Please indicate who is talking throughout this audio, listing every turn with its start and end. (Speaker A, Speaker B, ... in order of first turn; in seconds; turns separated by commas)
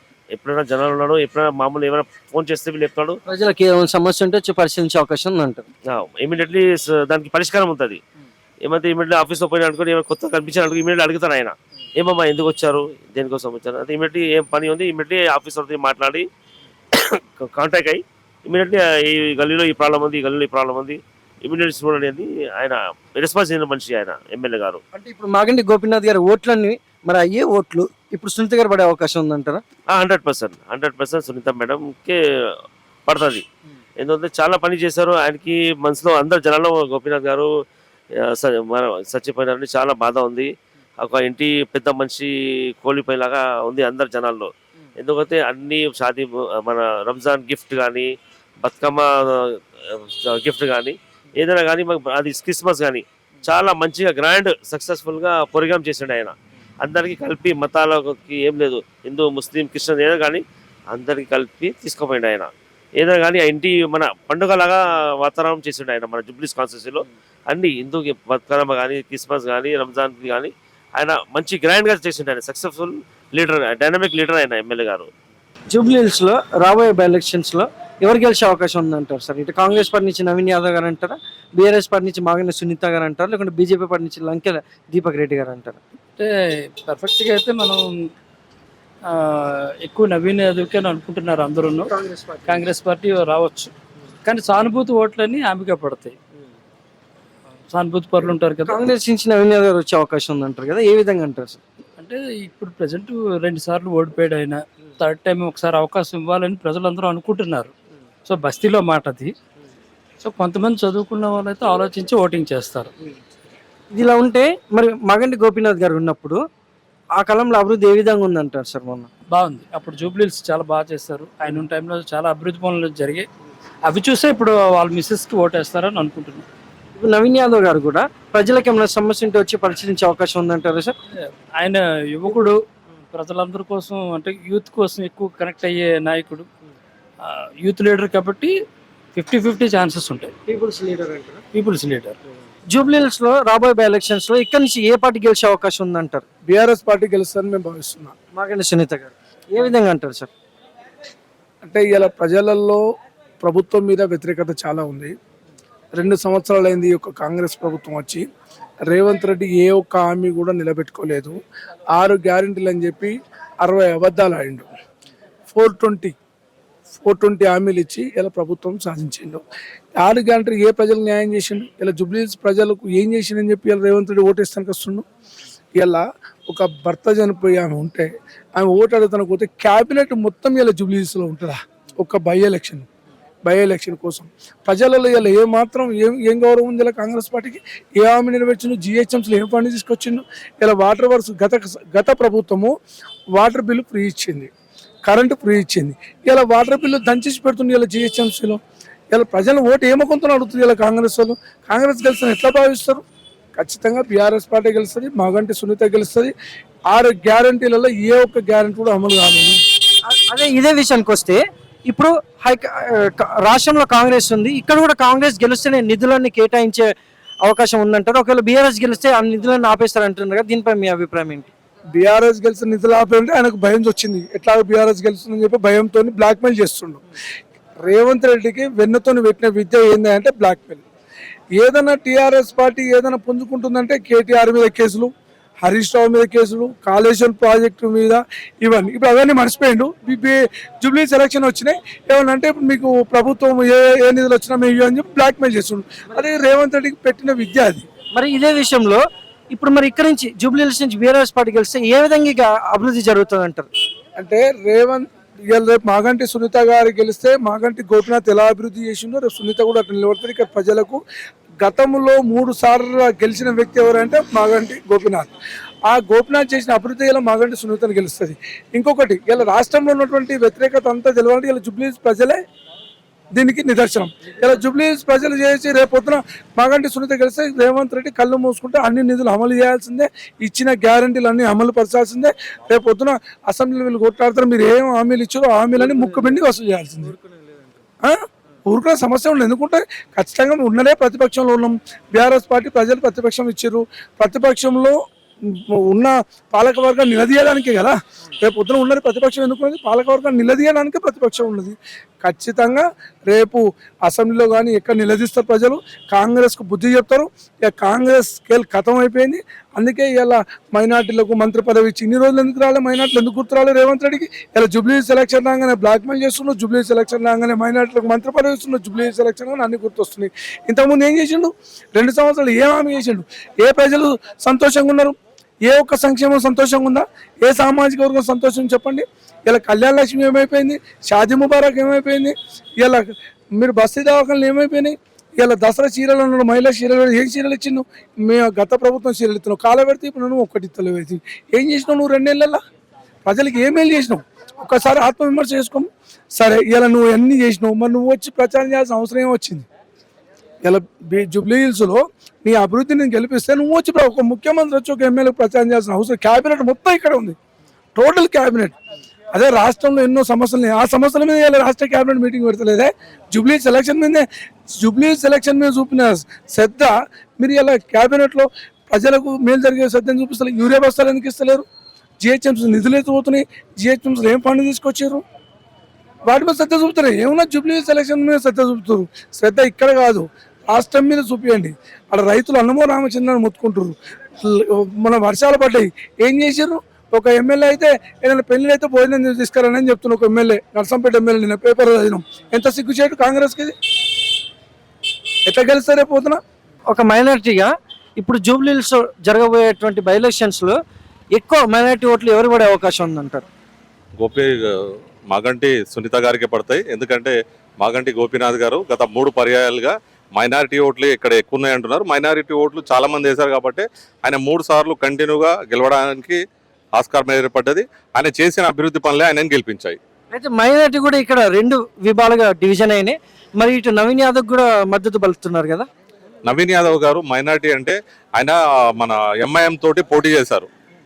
Speaker A: 0.3-3.2, Speaker B: 3.3-5.7, Speaker A: 5.9-8.0, Speaker A: 8.6-16.3, Speaker A: 16.9-24.8, Speaker B: 25.0-29.6, Speaker A: 29.9-32.2, Speaker A: 33.1-33.5, Speaker A: 34.0-37.5, Speaker A: 38.3-40.5, Speaker A: 41.0-48.1, Speaker A: 48.6-75.1, Speaker B: 75.7-85.8, Speaker C: 86.2-88.1, Speaker C: 89.1-91.9, Speaker B: 91.9-92.7, Speaker C: 92.5-93.7, Speaker C: 94.3-96.2, Speaker C: 97.7-98.8, Speaker B: 98.6-101.6, Speaker C: 102.0-107.7, Speaker C: 108.3-109.3, Speaker C: 110.2-112.9, Speaker B: 114.0-116.4, Speaker B: 117.2-119.1, Speaker C: 119.3-123.3, Speaker C: 123.9-126.5, Speaker B: 127.0-130.9, Speaker C: 131.6-132.6, Speaker C: 133.1-136.5, Speaker C: 137.2-138.6, Speaker C: 139.1-140.3, Speaker B: 140.5-141.4, Speaker C: 141.5-142.2, Speaker B: 142.7-146.2, Speaker D: 146.5-148.1, Speaker B: 148.3-150.3, Speaker D: 151.6-152.8, Speaker D: 153.4-155.2, Speaker D: 155.9-158.3, Speaker D: 158.9-161.4, Speaker D: 162.0-164.7, Speaker D: 165.5-166.2, Speaker D: 167.0-169.4, Speaker D: 170.0-175.1, Speaker D: 175.8-182.9, Speaker D: 183.5-192.7, Speaker D: 193.3-194.5, Speaker D: 195.1-198.6, Speaker D: 199.1-203.0, Speaker D: 203.6-206.3, Speaker D: 206.9-209.6, Speaker B: 210.1-221.5, Speaker D: 221.9-227.0, Speaker D: 227.8-230.8, Speaker D: 231.6-235.1, Speaker D: 235.6-247.9, Speaker B: 248.2-249.0, Speaker B: 249.5-253.7, Speaker D: 254.2-261.0, Speaker D: 261.6-265.3, Speaker D: 265.9-272.4, Speaker D: 273.3-287.1, Speaker B: 285.8-286.4, Speaker B: 287.0-287.7, Speaker D: 288.0-342.6, Speaker D: 343.2-349.7, Speaker D: 350.6-357.4, Speaker D: 358.0-358.8, Speaker D: 359.3-364.3, Speaker D: 364.8-371.6, Speaker D: 372.2-375.2, Speaker D: 376.3-393.8, Speaker D: 395.5-396.4, Speaker B: 396.9-400.8, Speaker B: 401.4-403.4, Speaker E: 404.2-404.5, Speaker E: 405.3-416.4, Speaker E: 416.9-420.0, Speaker B: 420.3-425.9, Speaker E: 426.5-430.7